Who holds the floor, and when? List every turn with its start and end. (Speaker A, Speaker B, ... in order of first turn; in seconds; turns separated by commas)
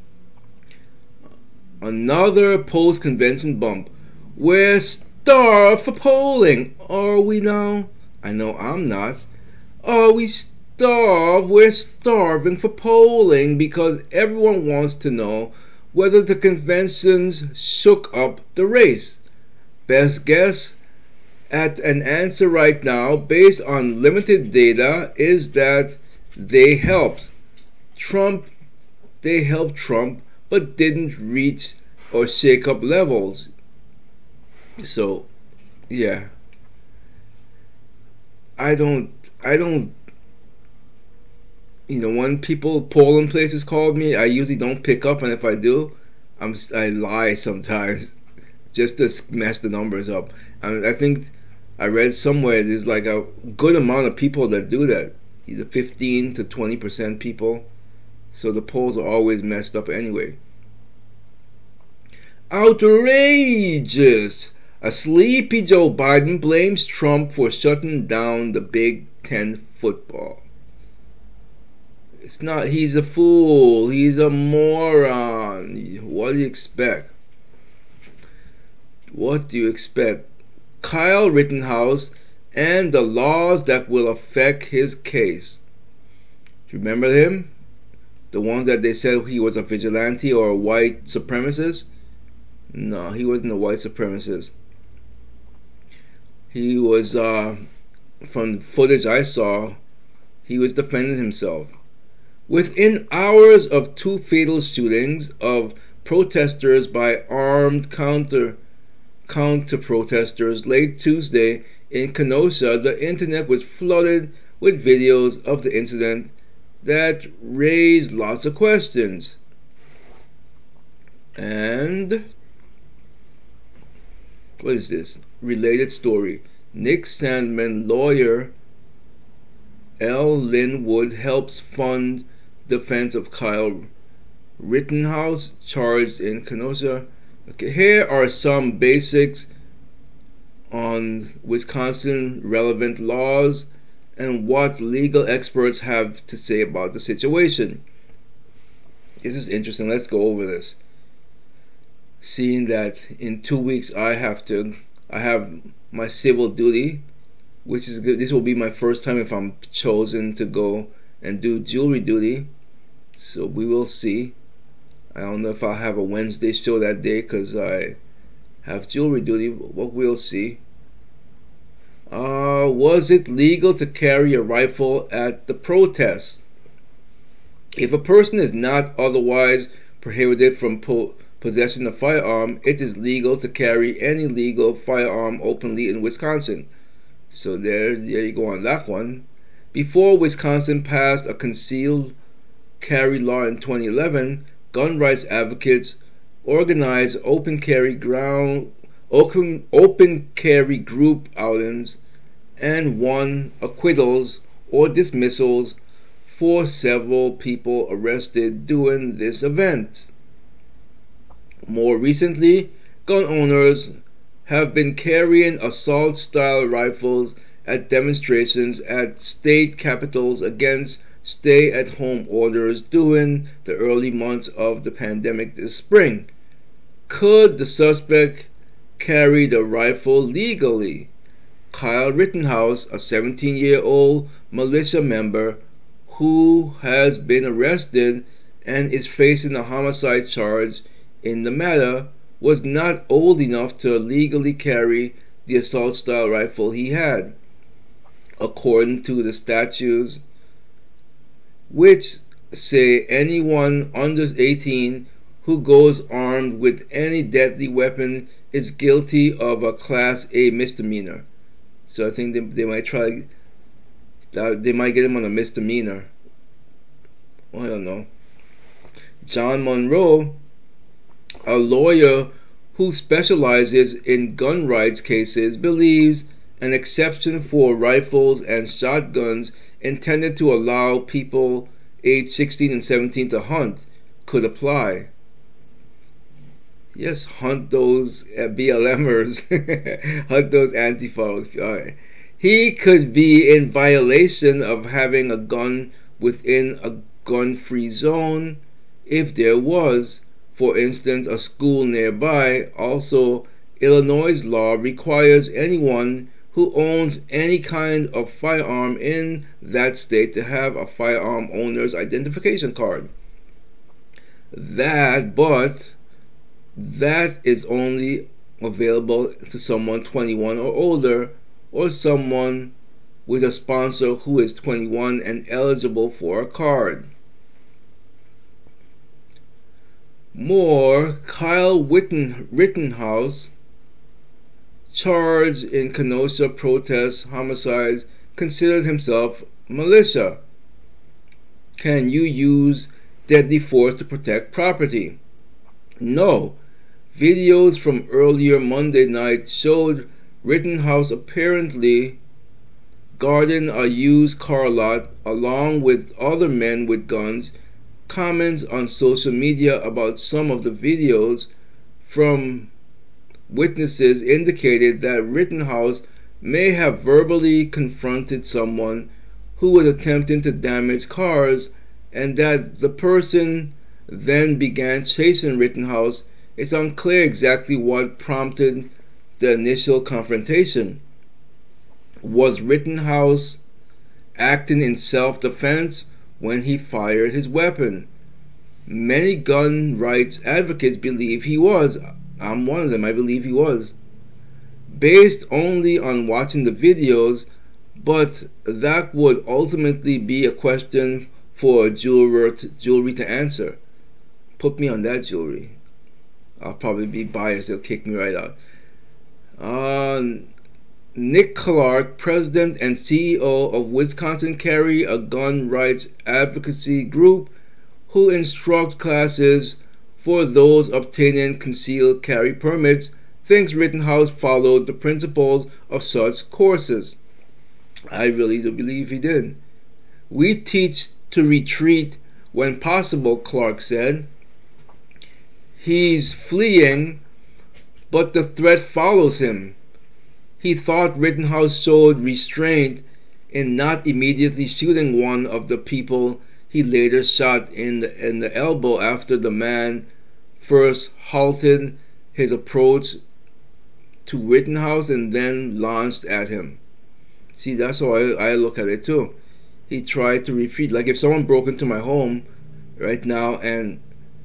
Speaker A: 1.8-9.3, Speaker A: 9.8-19.2, Speaker A: 19.9-20.8, Speaker A: 21.5-27.3, Speaker A: 28.0-28.5, Speaker A: 29.2-33.5, Speaker A: 34.8-35.3, Speaker A: 35.9-36.3, Speaker A: 38.6-39.9, Speaker A: 41.9-48.1, Speaker A: 48.7-57.7, Speaker A: 58.3-60.4, Speaker A: 62.5-70.4, Speaker A: 72.2-77.1, Speaker A: 79.1-80.3, Speaker A: 80.8-85.6, Speaker A: 86.7-87.5, Speaker A: 88.3-91.9, Speaker A: 92.7-94.5, Speaker A: 96.5-97.6, Speaker A: 98.2-99.8, Speaker A: 100.5-101.7, Speaker A: 102.5-108.6, Speaker A: 109.3-119.4, Speaker A: 121.4-122.2, Speaker A: 124.6-128.5, Speaker A: 130.0-133.9, Speaker A: 134.6-139.5, Speaker A: 140.7-147.8, Speaker A: 149.2-150.8, Speaker A: 152.2-157.0, Speaker A: 157.7-162.5, Speaker A: 163.2-164.3, Speaker A: 165.1-168.0, Speaker A: 168.6-170.6, Speaker A: 172.1-176.4, Speaker A: 177.8-186.7, Speaker A: 187.3-192.2, Speaker A: 192.8-202.0, Speaker A: 202.6-210.1, Speaker A: 211.7-226.3, Speaker A: 227.1-231.1, Speaker A: 231.7-247.3, Speaker A: 248.4-250.2, Speaker A: 251.7-261.2, Speaker A: 261.9-263.3, Speaker A: 264.3-266.1, Speaker A: 267.5-268.1, Speaker A: 269.2-270.4, Speaker A: 271.4-285.1, Speaker A: 286.9-313.1, Speaker A: 314.5-315.9, Speaker A: 316.8-322.7, Speaker A: 323.3-327.1, Speaker A: 330.3-333.5, Speaker A: 334.9-340.4, Speaker A: 341.8-345.2, Speaker A: 346.0-346.6, Speaker A: 347.1-352.2, Speaker A: 353.2-357.6, Speaker A: 358.1-361.5, Speaker A: 362.0-362.7, Speaker A: 363.5-381.0, Speaker A: 382.2-383.6, Speaker A: 384.4-388.1, Speaker A: 388.9-393.9, Speaker A: 394.9-403.8, Speaker A: 404.6-405.8, Speaker A: 406.6-408.6, Speaker A: 409.6-410.5, Speaker A: 411.1-417.5, Speaker A: 418.1-427.2, Speaker A: 428.1-429.6, Speaker A: 430.3-434.3, Speaker A: 435.8-437.2, Speaker A: 438.1-439.8, Speaker A: 440.6-450.1, Speaker A: 450.6-453.2, Speaker A: 454.3-456.8, Speaker A: 457.6-459.4, Speaker A: 459.9-462.4, Speaker A: 463.0-464.0